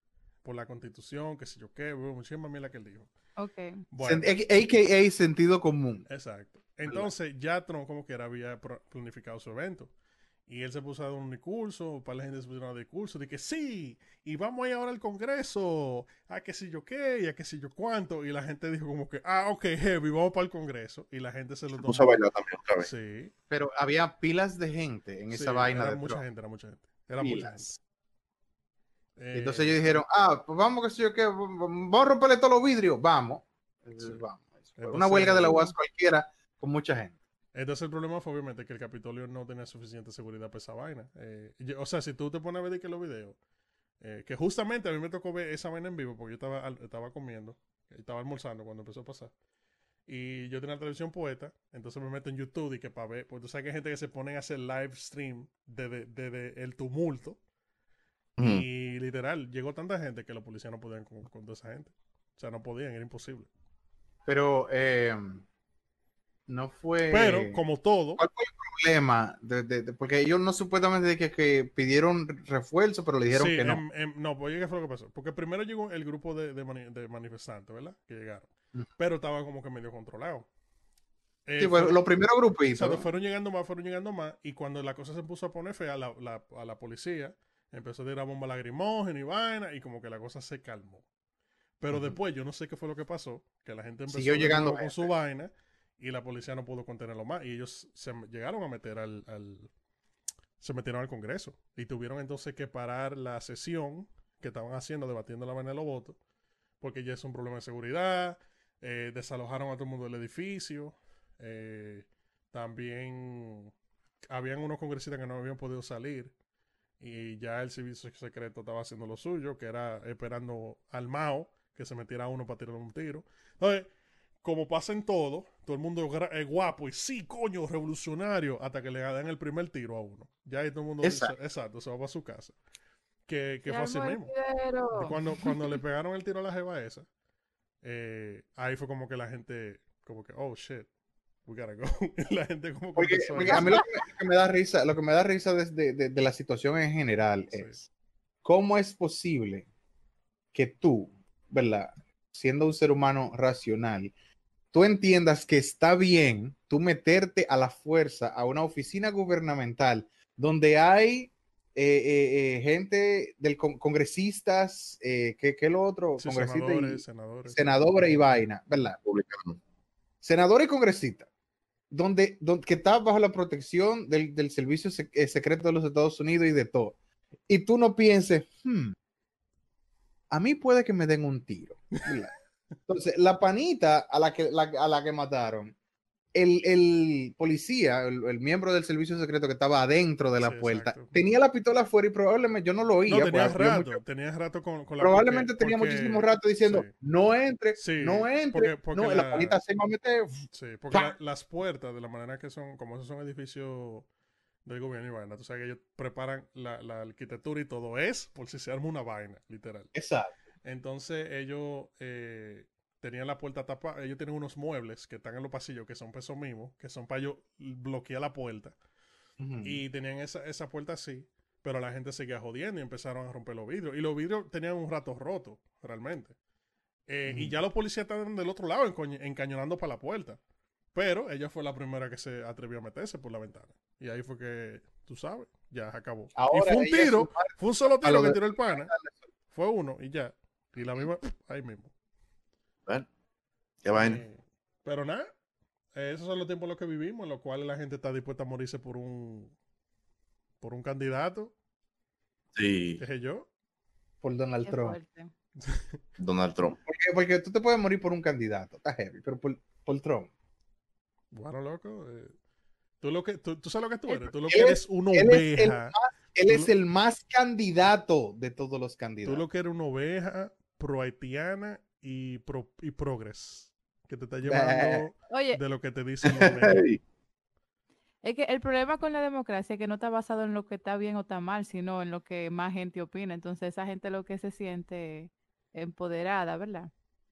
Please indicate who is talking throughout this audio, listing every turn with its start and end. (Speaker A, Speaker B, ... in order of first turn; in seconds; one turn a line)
Speaker A: 0.4-3.1
Speaker B: 3.4-3.8
Speaker A: 3.9-4.3
Speaker C: 4.0-6.0
Speaker A: 6.1-9.9
Speaker A: 10.5-22.1
Speaker D: 21.8-22.9
Speaker A: 22.8-23.3
Speaker C: 23.5-26.2
Speaker A: 25.3-27.8
Speaker C: 27.2-27.6
Speaker A: 29.2-29.8
Speaker C: 29.3-37.1
Speaker A: 34.8-35.5
Speaker B: 35.4-35.7
Speaker A: 37.5-43.4
Speaker A: 44.0-49.3
Speaker A: 50.1-57.4
Speaker D: 58.4-58.6
Speaker A: 58.4-63.5
Speaker C: 64.3-65.4
Speaker C: 66.5-67.6
Speaker A: 67.1-68.2
Speaker C: 68.2-73.8
Speaker A: 73.3-80.5
Speaker A: 81.5-82.0
Speaker C: 81.6-83.0
Speaker A: 82.7-91.0
Speaker A: 91.8-99.7
Speaker C: 91.9-92.2
Speaker C: 94.1-95.1
Speaker A: 100.6-106.2
Speaker A: 106.8-113.7
Speaker A: 114.3-116.3
Speaker A: 117.0-123.9
Speaker A: 124.4-132.5
Speaker C: 131.0-131.3
Speaker A: 133.3-134.3
Speaker B: 133.7-135.6
Speaker A: 134.9-137.1
Speaker A: 137.8-140.9
Speaker A: 141.4-143.8
Speaker C: 142.9-147.8
Speaker B: 143.4-143.8
Speaker C: 148.4-149.7
Speaker C: 150.5-154.1
Speaker C: 154.7-169.0
Speaker A: 166.2-167.9
Speaker D: 169.0-169.6
Speaker C: 170.2-171.3
Speaker C: 171.9-176.9
Speaker C: 177.5-178.9
Speaker C: 180.3-182.3
Speaker C: 182.9-185.7
Speaker C: 186.3-194.0
Speaker A: 190.4-191.2
Speaker A: 193.1-196.9
Speaker C: 195.0-201.1
Speaker A: 197.8-199.6
Speaker A: 200.5-204.1
Speaker A: 204.6-209.9
Speaker C: 209.9-210.3
Speaker A: 210.6-218.7
Speaker C: 219.4-219.8
Speaker A: 219.6-226.3
Speaker A: 227.1-230.4
Speaker C: 227.3-227.5
Speaker A: 230.9-238.9
Speaker C: 236.3-239.2
Speaker A: 239.5-241.9
Speaker D: 243.8-244.2
Speaker A: 243.9-245.3
Speaker A: 245.9-249.5
Speaker A: 250.6-251.5
Speaker D: 252.5-253.0
Speaker A: 253.0-253.5
Speaker C: 254.2-255.0
Speaker B: 254.7-255.3
Speaker A: 255.6-256.0
Speaker D: 256.2-256.8
Speaker C: 256.9-260.3
Speaker A: 261.3-262.3
Speaker A: 263.0-265.9
Speaker C: 264.1-269.4
Speaker A: 269.2-276.9
Speaker C: 274.4-275.1
Speaker B: 275.3-275.6
Speaker D: 276.3-277.0
Speaker B: 278.2-286.9